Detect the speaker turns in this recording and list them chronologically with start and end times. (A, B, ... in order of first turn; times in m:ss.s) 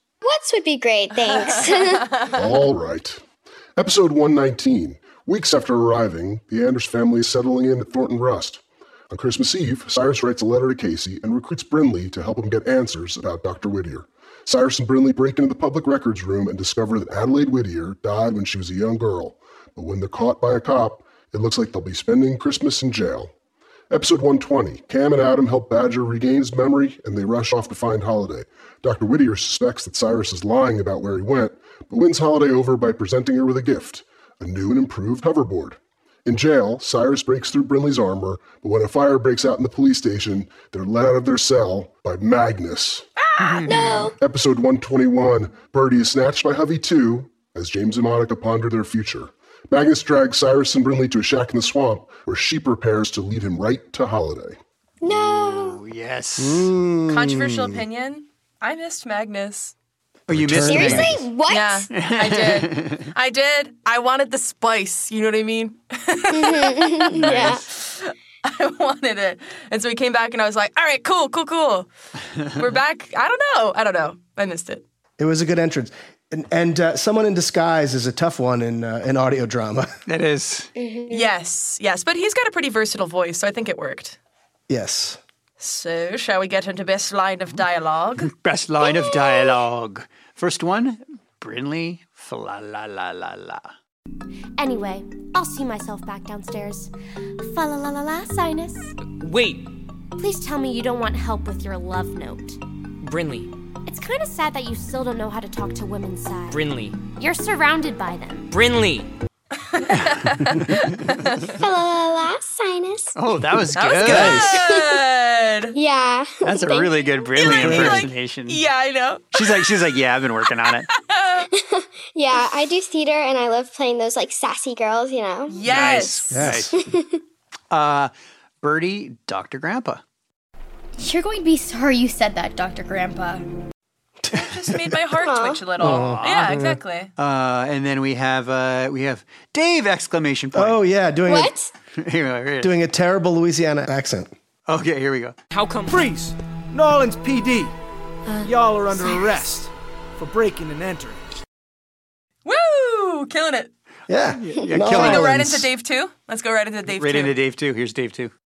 0:00.2-0:02.2 A
0:01.2-0:02.4 B
0:02.3-0:03.2 C
0:03.8-0:23.3 C
0:23.9-0:43.0 C
0:43.4-0:44.0 D
0:43.6-0:44.1 A
0:44.2-0:54.6 C
0:55.0-0:55.8 A
0:55.4-0:56.7 D
0:56.4-0:57.8 E
0:57.1-0:59.7 B
1:00.3-1:01.2 D
1:00.3-1:01.2 E
1:00.6-1:01.9 A
1:01.5-1:11.9 B
1:01.9-1:03.1 D
1:06.3-1:07.6 A
1:07.2-1:07.6 D
1:12.6-1:14.8 B
1:15.2-1:19.9 E
1:20.1-1:20.7 D
1:20.8-1:21.3 A
1:21.1-1:24.2 B
1:24.7-1:25.2 E
1:25.6-1:28.3 B
1:28.3-1:33.7 D
1:34.6-1:38.9 F
1:39.1-1:39.7 G
1:40.2-1:42.6 F
1:43.0-1:43.5 G
1:43.8-1:48.5 F
1:46.5-1:47.0 G
1:48.5-1:49.1 G
1:49.7-1:51.5 B
1:51.6-1:53.1 A
1:53.2-1:54.6 D
1:53.7-1:55.8 B
1:54.0-1:54.5 E
1:54.4-1:55.0 A
1:55.7-1:57.1 A
1:56.4-1:58.6 D
1:57.3-1:59.7 B
1:57.6-1:58.0 E
1:59.3-2:00.9 D
2:00.8-2:01.5 B
2:01.5-2:05.6 A
2:05.5-2:06.5 B
2:05.7-2:06.8 D
2:06.3-2:06.7 E
2:06.7-2:07.2 A
2:07.7-2:10.0 D
2:11.0-2:13.5 H
2:14.3-2:14.9 E
2:14.3-2:17.1 B
2:15.2-2:15.6 A
2:15.8-2:16.6 D
2:15.8-2:16.8 E
2:17.2-2:20.8 D
2:20.5-2:21.5 E
2:21.2-2:21.7 A
2:22.0-2:22.7 D
2:22.6-2:24.3 E
2:24.7-2:25.3 D
2:25.5-2:26.0 G
2:26.0-2:27.7 I
2:29.1-2:29.6 I
2:30.3-2:31.1 I
2:32.4-2:33.7 B
2:34.1-2:35.6 E
2:34.4-2:35.6 D
2:34.8-2:37.3 B
2:36.9-2:38.3 D